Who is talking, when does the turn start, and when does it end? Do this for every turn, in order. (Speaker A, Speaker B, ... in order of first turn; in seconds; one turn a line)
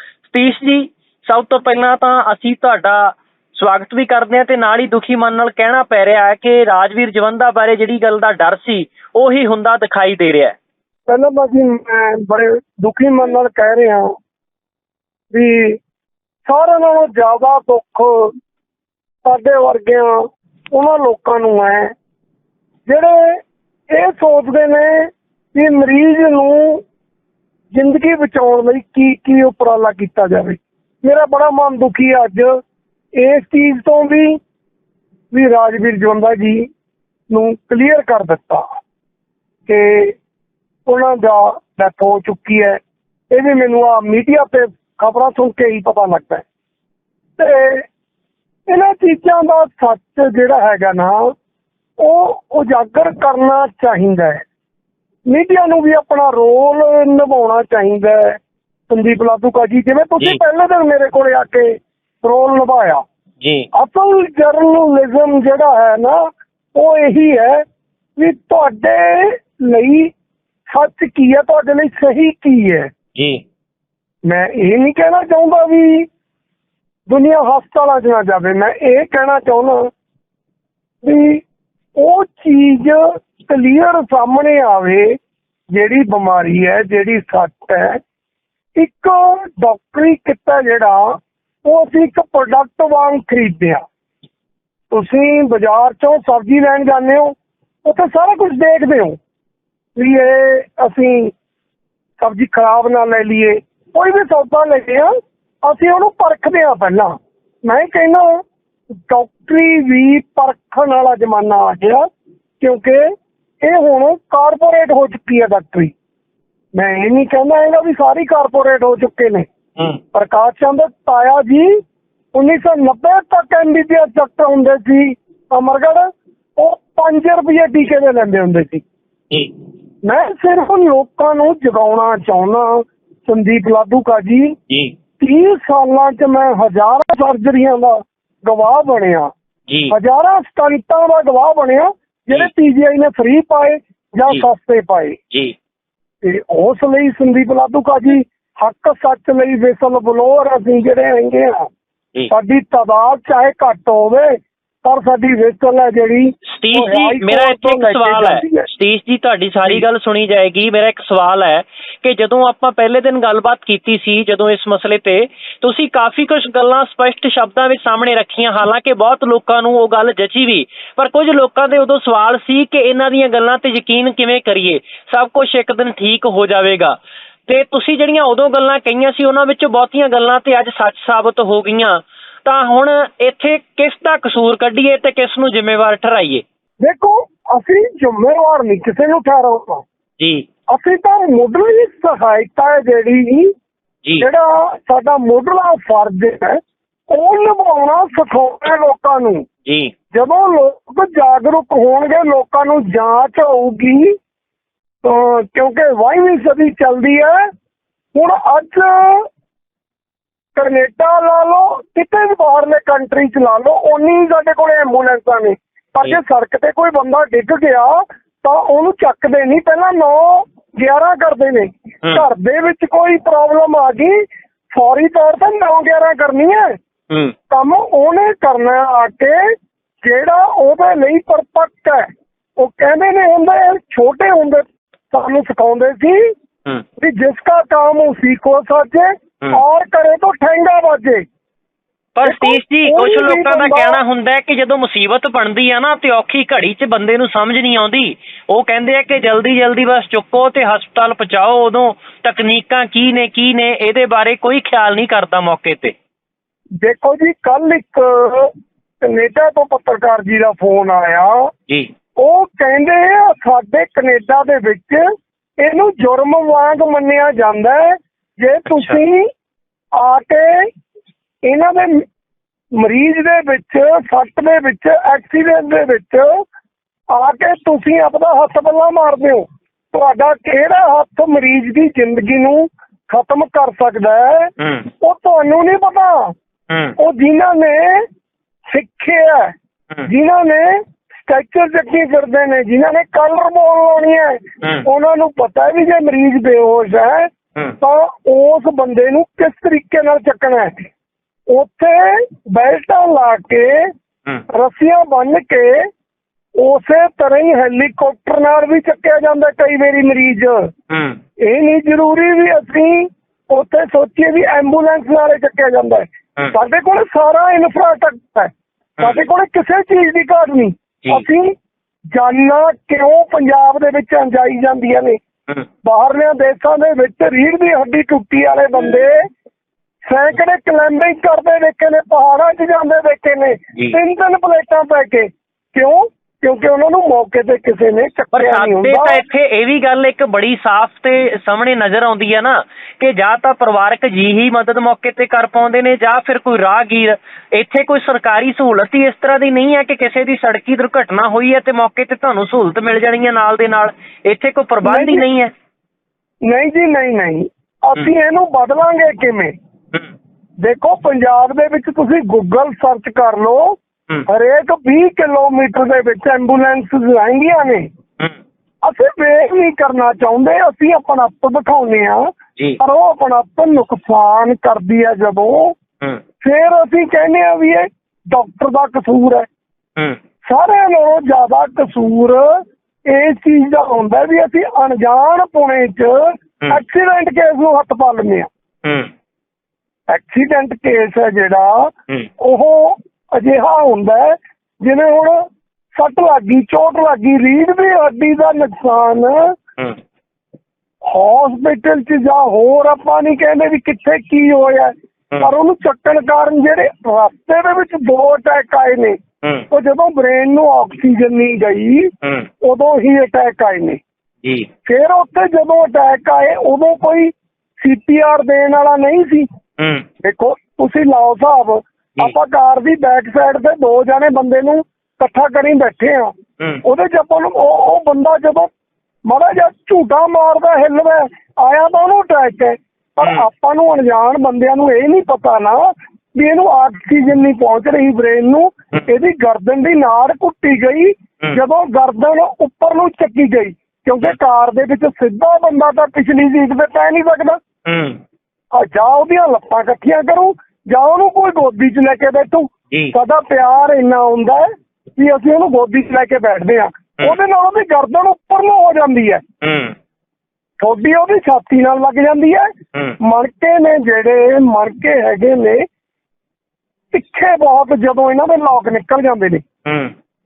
Speaker A: 0.3-10.6
Speaker B: 11.1-14.1
Speaker B: 15.3-15.8
Speaker B: 16.5-18.3
Speaker B: 19.2-21.9
Speaker B: 22.9-26.8
Speaker B: 27.7-32.5
Speaker B: 33.2-34.4
Speaker B: 35.3-36.7
Speaker B: 37.3-38.6
Speaker B: 39.7-40.2
Speaker B: 40.9-42.8
Speaker B: 43.3-46.4
Speaker B: 47.4-47.9
Speaker B: 48.7-51.3
Speaker B: 52.0-54.4
Speaker B: 55.3-58.4
Speaker B: 58.9-63.0
Speaker A: 63.4-63.7
Speaker B: 63.7-67.6
Speaker B: 68.2-70.1
Speaker B: 70.7-72.9
Speaker A: 73.2-73.4
Speaker B: 74.3-76.1
Speaker B: 77.1-79.9
Speaker B: 81.0-81.4
Speaker B: 82.0-85.2
Speaker B: 85.7-88.0
Speaker B: 88.8-93.8
Speaker B: 94.9-99.2
Speaker B: 100.0-101.3
Speaker B: 102.2-105.1
Speaker B: 105.6-108.4
Speaker B: 109.1-112.1
Speaker B: 112.6-113.1
Speaker B: 113.6-115.9
Speaker B: 116.8-119.5
Speaker B: 120.1-121.8
Speaker B: 122.3-128.8
Speaker B: 130.0-134.6
Speaker A: 134.7-134.9
Speaker B: 135.2-139.3
Speaker A: 139.7-139.9
Speaker B: 139.9-145.2
Speaker B: 146.2-151.7
Speaker B: 152.3-158.7
Speaker A: 156.5-186.4
Speaker B: 186.8-189.8
Speaker A: 190.2-190.5
Speaker B: 190.7-193.5
Speaker B: 194.2-199.4
Speaker A: 199.7-199.9
Speaker B: 200.1-204.2
Speaker B: 205.0-207.5
Speaker B: 208.2-209.3
Speaker B: 210.6-226.8
Speaker B: 227.5-236.3
Speaker B: 237.0-241.3
Speaker A: 242.2-255.9
Speaker B: 242.2-244.0
Speaker B: 256.8-261.5
Speaker B: 262.2-265.0
Speaker B: 265.6-269.3
Speaker A: 268.7-269.0
Speaker B: 269.9-270.7
Speaker B: 271.4-272.0
Speaker B: 272.8-276.4
Speaker B: 277.1-286.3
Speaker A: 284.6-284.9
Speaker A: 286.7-287.0
Speaker B: 287.0-288.1
Speaker B: 288.7-289.5
Speaker B: 290.1-297.3
Speaker B: 297.8-300.8
Speaker B: 301.5-303.9
Speaker B: 304.5-305.9
Speaker B: 306.6-310.7
Speaker A: 310.9-311.2
Speaker B: 311.4-321.5
Speaker B: 322.1-325.2
Speaker B: 325.9-329.2
Speaker B: 330.1-339.2
Speaker A: 338.3-355.5
Speaker B: 354.8-355.3
Speaker B: 356.4-359.5
Speaker B: 360.6-367.9
Speaker B: 368.8-375.8
Speaker B: 376.4-379.5
Speaker B: 380.4-382.5
Speaker B: 383.1-388.5
Speaker A: 388.9-389.1
Speaker B: 390.1-399.6
Speaker B: 401.1-409.2
Speaker B: 409.7-412.1
Speaker A: 412.2-412.5
Speaker B: 412.6-414.0
Speaker B: 414.9-419.5
Speaker A: 419.8-420.1
Speaker B: 420.2-426.3
Speaker B: 426.8-428.7
Speaker B: 429.3-447.6
Speaker A: 447.9-448.2
Speaker B: 448.7-459.4
Speaker A: 459.6-459.9
Speaker B: 460.8-465.9
Speaker B: 467.1-469.6
Speaker A: 469.9-470.1